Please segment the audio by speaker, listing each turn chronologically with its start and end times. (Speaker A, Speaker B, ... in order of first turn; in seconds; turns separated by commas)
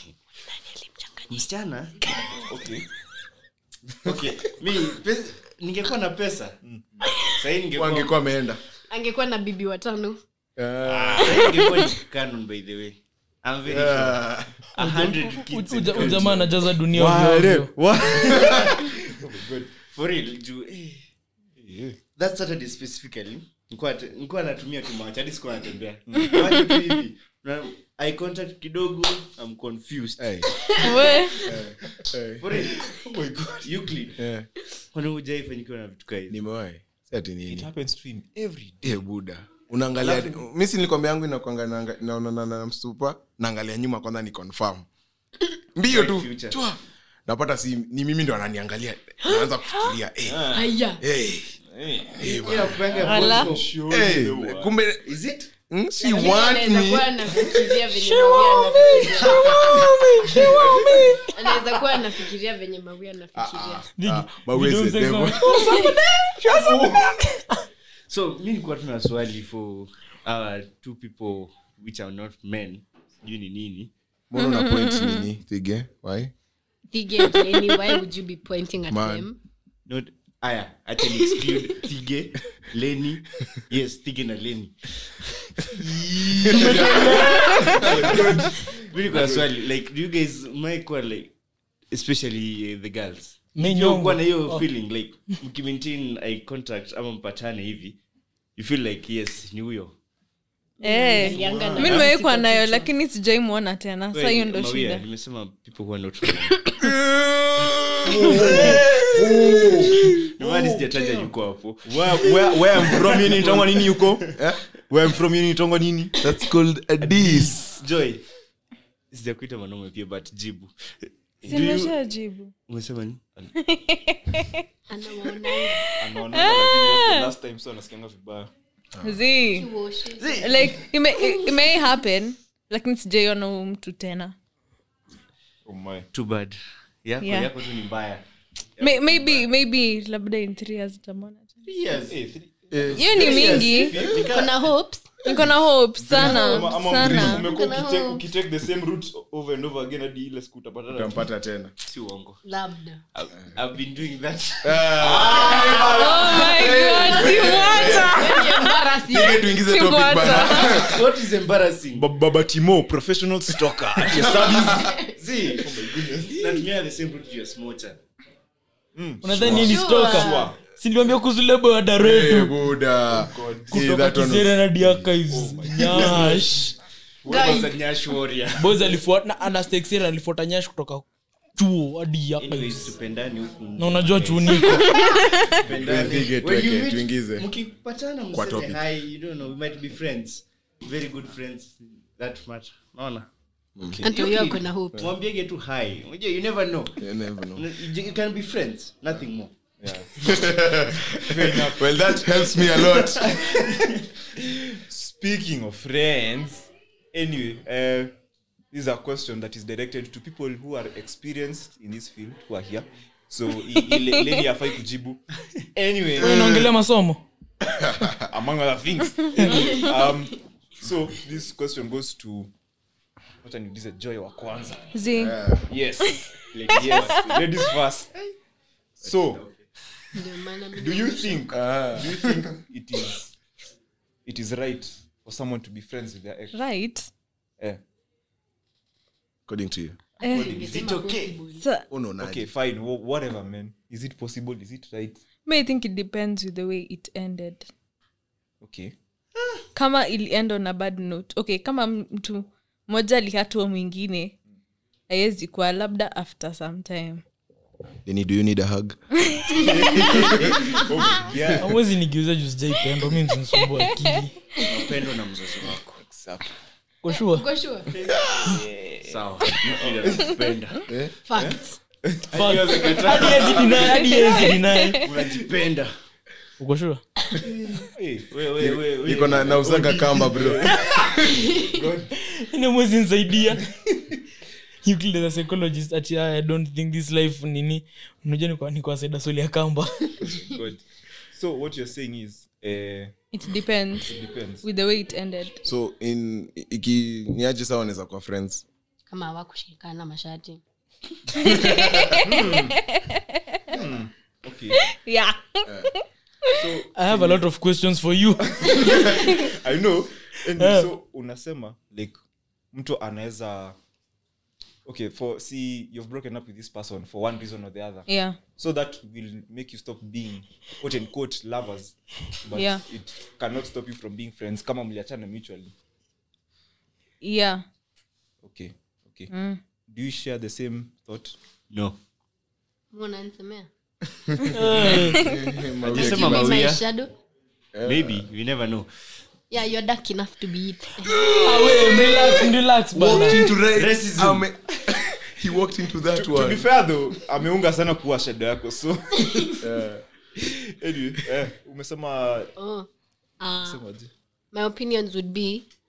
Speaker A: 0.5-1.4, Speaker B: 1.3-2.0, Speaker A: 2.0-2.4, Speaker C: 2.4-2.9, Speaker B: 4.0-6.6, Speaker C: 6.6-7.0, Speaker B: 7.2-8.2, Speaker D: 7.7-8.6, Speaker A: 8.9-10.2, Speaker D: 10.6-11.7, Speaker B: 10.8-14.2, Speaker D: 13.7-14.6, Speaker B: 14.7-16.5, Speaker E: 14.8-17.7, Speaker C: 15.9-19.8, Speaker D: 18.2-18.7, Speaker B: 19.9-21.0, Speaker C: 21.6-22.0, Speaker B: 22.1-31.2, Speaker C: 26.1-26.8, Speaker D: 30.2-30.5, Speaker A: 30.6-31.1, Speaker F: 30.8-31.5, Speaker D: 31.4-32.5, Speaker B: 32.4-32.9, Speaker C: 32.5-33.7, Speaker B: 33.6-34.2, Speaker D: 34.2-34.5, Speaker B: 34.9-36.4, Speaker D: 36.3-37.7, Speaker C: 37.5-39.0, Speaker D: 38.8-44.9, Speaker B: 40.0-40.4, Speaker D: 45.7-51.6, Speaker B: 45.9-46.6, Speaker A: 49.2-49.9, Speaker C: 50.2-50.7, Speaker A: 50.5-51.0, Speaker C: 51.6-54.7, Speaker D: 52.1-52.9, Speaker B: 52.2-53.8, Speaker F: 53.0-53.5, Speaker D: 53.9-55.0, Speaker B: 55.0-55.5, Speaker D: 55.7-57.5, Speaker A: 56.0-59.9, Speaker F: 58.1-59.0, Speaker E: 59.3-61.3, Speaker C: 60.3-61.2, Speaker A: 61.3-63.9, Speaker D: 63.3-65.8, Speaker E: 64.0-67.6, Speaker A: 65.5-65.9, Speaker C: 66.4-67.1, Speaker B: 68.1-73.9, Speaker D: 74.3-76.3, Speaker F: 74.4-75.2, Speaker A: 76.9-79.4, Speaker D: 78.9-79.3, Speaker B: 79.9-84.9, Speaker C: 85.7-89.5, Speaker D: 86.4-88.2, Speaker E: 86.5-87.9, Speaker B: 88.7-91.3, Speaker B: 91.9-98.0, Speaker E: 93.5-94.6, Speaker B: 98.5-100.0, Speaker A: 100.8-102.9, Speaker F: 100.8-105.0, Speaker C: 101.3-102.0, Speaker B: 101.6-102.0, Speaker B: 104.1-106.6, Speaker D: 106.8-110.1, Speaker C: 108.0-111.3, Speaker B: 110.3-114.3, Speaker C: 111.8-114.4, Speaker D: 114.4-114.6, Speaker C: 114.9-116.2, Speaker D: 116.2-117.6, Speaker B: 117.0-118.2, Speaker B: 119.1-122.0, Speaker F: 121.5-122.5, Speaker B: 122.7-123.5, Speaker F: 123.5-124.6, Speaker A: 124.9-125.8, Speaker F: 125.5-127.3, Speaker C: 126.0-128.5, Speaker D: 128.9-129.2, Speaker F: 129.0-129.7, Speaker A: 129.5-131.6, Speaker B: 130.2-130.9, Speaker F: 130.4-134.3, Speaker C: 135.6-136.1, Speaker B: 136.1-138.2, Speaker F: 137.2-137.5, Speaker B: 138.8-139.5, Speaker F: 138.8-141.5, Speaker B: 141.6-142.2, Speaker C: 142.1-144.3, Speaker D: 142.7-143.1, Speaker F: 142.9-144.0, Speaker B: 143.1-144.6, Speaker A: 144.1-145.2, Speaker F: 145.2-147.5, Speaker C: 146.0-151.2, Speaker A: 146.2-148.2, Speaker D: 150.9-151.7, Speaker B: 151.8-152.4, Speaker A: 152.4-153.0, Speaker B: 153.1-156.5, Speaker D: 154.6-158.4, Speaker C: 154.9-158.1, Speaker F: 155.9-158.7, Speaker A: 156.7-159.5, Speaker D: 159.0-161.1, Speaker F: 159.5-160.9, Speaker B: 160.6-162.1, Speaker C: 161.9-164.9, Speaker D: 164.0-164.9, Speaker A: 164.6-165.1, Speaker B: 165.1-168.0, Speaker C: 165.5-166.7, Speaker C: 168.9-170.6, Speaker E: 169.2-172.6, Speaker D: 169.4-169.7, Speaker A: 169.5-170.5, Speaker D: 171.9-175.1, Speaker C: 173.1-173.8, Speaker E: 173.7-176.7, Speaker C: 175.2-176.7, Speaker C: 177.2-177.6, Speaker B: 177.2-178.8, Speaker A: 177.3-177.7, Speaker E: 178.6-182.9, Speaker B: 182.4-193.3, Speaker E: 183.8-185.3, Speaker F: 184.8-185.5, Speaker C: 185.6-186.1, Speaker D: 185.7-187.5, Speaker D: 188.3-188.8, Speaker D: 193.8-194.0, Speaker B: 194.0-199.5, Speaker A: 194.0-195.1, Speaker D: 197.0-197.7, Speaker C: 199.8-200.1, Speaker D: 200.2-203.4, Speaker C: 201.2-203.8, Speaker B: 202.8-204.0, Speaker C: 204.3-208.1, Speaker C: 208.7-215.2, Speaker C: 215.7-216.7, Speaker E: 216.2-217.2, Speaker D: 216.2-216.6, Speaker D: 217.7-218.3, Speaker C: 218.1-222.5, Speaker C: 223.4-224.9, Speaker F: 224.9-225.4, Speaker D: 225.2-225.7, Speaker C: 225.7-228.2, Speaker B: 226.5-227.4, Speaker F: 226.7-227.4, Speaker B: 229.0-229.7, Speaker C: 229.0-229.4, Speaker A: 230.1-231.5, Speaker C: 230.8-233.3, Speaker D: 231.5-232.5, Speaker C: 234.2-236.6, Speaker F: 236.5-237.1, Speaker D: 239.5-240.0, Speaker C: 240.2-240.9, Speaker A: 240.2-241.7, Speaker F: 240.2-240.6, Speaker B: 240.3-241.4, Speaker F: 241.6-241.9, Speaker D: 241.9-242.5, Speaker C: 242.2-245.2, Speaker F: 245.4-247.7, Speaker C: 248.6-248.9, Speaker F: 249.7-254.3, Speaker F: 255.1-257.2, Speaker D: 258.0-259.0, Speaker F: 259.3-260.0, Speaker C: 259.5-261.7, Speaker D: 259.6-260.8, Speaker B: 260.1-260.5, Speaker B: 261.1-261.6, Speaker E: 261.6-264.3, Speaker F: 263.8-264.1, Speaker B: 264.6-266.0, Speaker C: 266.1-266.4, Speaker E: 267.0-267.4, Speaker A: 267.3-267.9, Speaker B: 267.9-268.3, Speaker C: 268.1-270.4, Speaker D: 268.1-268.6, Speaker B: 269.0-270.8, Speaker D: 270.9-271.1, Speaker A: 271.2-271.8, Speaker C: 271.3-273.8, Speaker B: 272.3-275.9, Speaker E: 272.3-275.0, Speaker F: 274.1-274.9, Speaker E: 276.6-277.0, Speaker C: 277.4-278.3, Speaker B: 278.3-280.2, Speaker D: 278.6-281.0, Speaker C: 279.6-282.1, Speaker A: 281.3-281.7, Speaker E: 282.1-283.6, Speaker E: 284.8-290.1, Speaker C: 290.2-293.1, Speaker F: 293.3-295.6, Speaker C: 294.0-294.6, Speaker D: 295.6-298.6, Speaker A: 299.1-300.6, Speaker D: 301.4-302.2, Speaker F: 301.4-303.7, Speaker C: 302.2-302.8, Speaker C: 303.7-304.8, Speaker F: 304.8-306.7, Speaker D: 305.6-305.9, Speaker C: 306.6-307.4, Speaker E: 306.9-308.9, Speaker C: 308.4-312.2, Speaker F: 308.9-309.3, Speaker E: 310.6-310.9, Speaker C: 312.7-313.8, Speaker C: 314.8-325.7, Speaker F: 318.1-318.4, Speaker F: 322.5-322.8, Speaker F: 327.2-327.6, Speaker C: 328.4-329.3, Speaker F: 329.3-329.6, Speaker C: 329.9-331.4, Speaker B: 331.7-332.0, Speaker A: 332.9-333.7, Speaker D: 334.3-336.8, Speaker E: 334.4-335.2, Speaker B: 335.8-336.8, Speaker A: 335.9-337.1, Speaker D: 337.7-338.3, Speaker B: 337.9-338.9, Speaker A: 339.5-341.3, Speaker D: 341.1-342.4, Speaker E: 341.3-343.5, Speaker D: 342.9-346.7, Speaker B: 343.5-344.5, Speaker C: 346.1-349.6, Speaker D: 349.5-350.0, Speaker C: 350.4-352.5, Speaker A: 352.6-352.9, Speaker A: 353.4-353.8, Speaker C: 353.6-354.1, Speaker A: 354.5-355.7